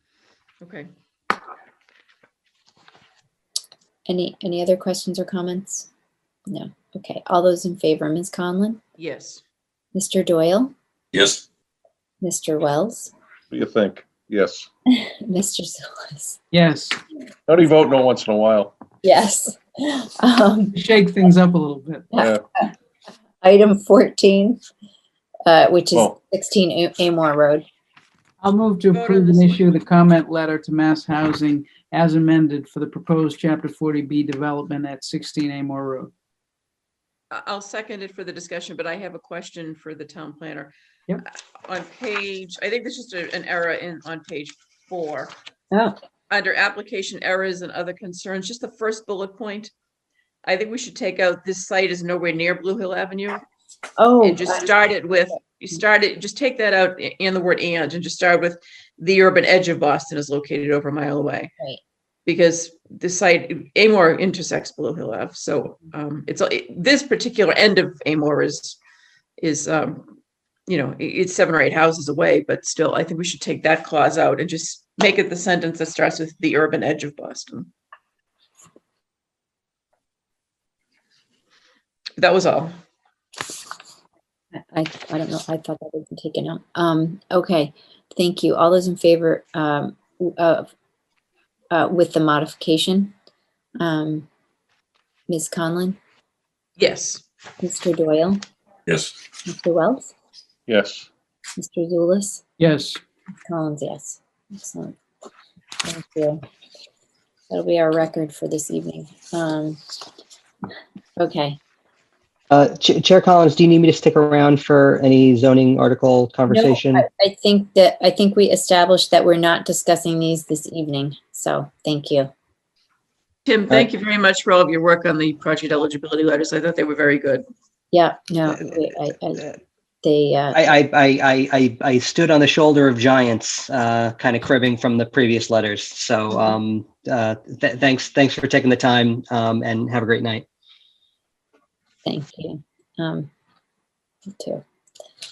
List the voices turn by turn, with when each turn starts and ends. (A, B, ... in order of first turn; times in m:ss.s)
0:00.6-0:00.9 A
0:04.1-0:05.9 B
0:06.5-0:08.8 B
0:09.0-0:09.4 A
0:10.0-0:10.7 B
0:12.2-0:13.1 B
0:13.5-0:14.7 C
0:14.9-0:16.4 B
0:16.5-0:17.0 D
0:17.5-0:18.7 C
0:19.0-0:20.8 B
0:20.7-0:22.1 D
0:22.1-0:22.7 B
0:22.2-0:22.4 C
0:23.4-0:24.6 B
0:25.5-0:27.6 B
0:28.4-0:36.1 D
0:28.9-0:29.8 A
0:37.3-0:40.7 A
0:41.3-0:45.3 A
0:46.3-0:49.7 A
0:50.4-0:53.4 A
0:54.0-0:54.7 B
0:54.2-1:01.5 A
1:02.3-1:08.8 A
1:09.4-1:10.1 A
1:10.7-1:17.7 A
1:22.2-1:22.8 A
1:24.7-1:30.7 B
1:31.7-1:33.1 B
1:33.8-1:34.3 B
1:35.3-1:36.0 B
1:36.8-1:37.2 A
1:37.6-1:38.4 B
1:39.5-1:40.1 B
1:40.7-1:41.1 C
1:41.6-1:42.4 B
1:42.6-1:43.0 D
1:43.4-1:45.0 B
1:45.8-1:46.4 B
1:47.5-1:49.8 B
1:51.2-1:51.6 B
1:52.5-1:57.1 E
1:56.5-2:02.3 B
2:03.4-2:07.4 A
2:07.9-2:09.4 B
2:10.0-2:10.8 B
2:10.5-2:20.4 E
2:16.3-2:16.6 B
2:22.0-2:23.3 B
2:24.4-2:24.6 B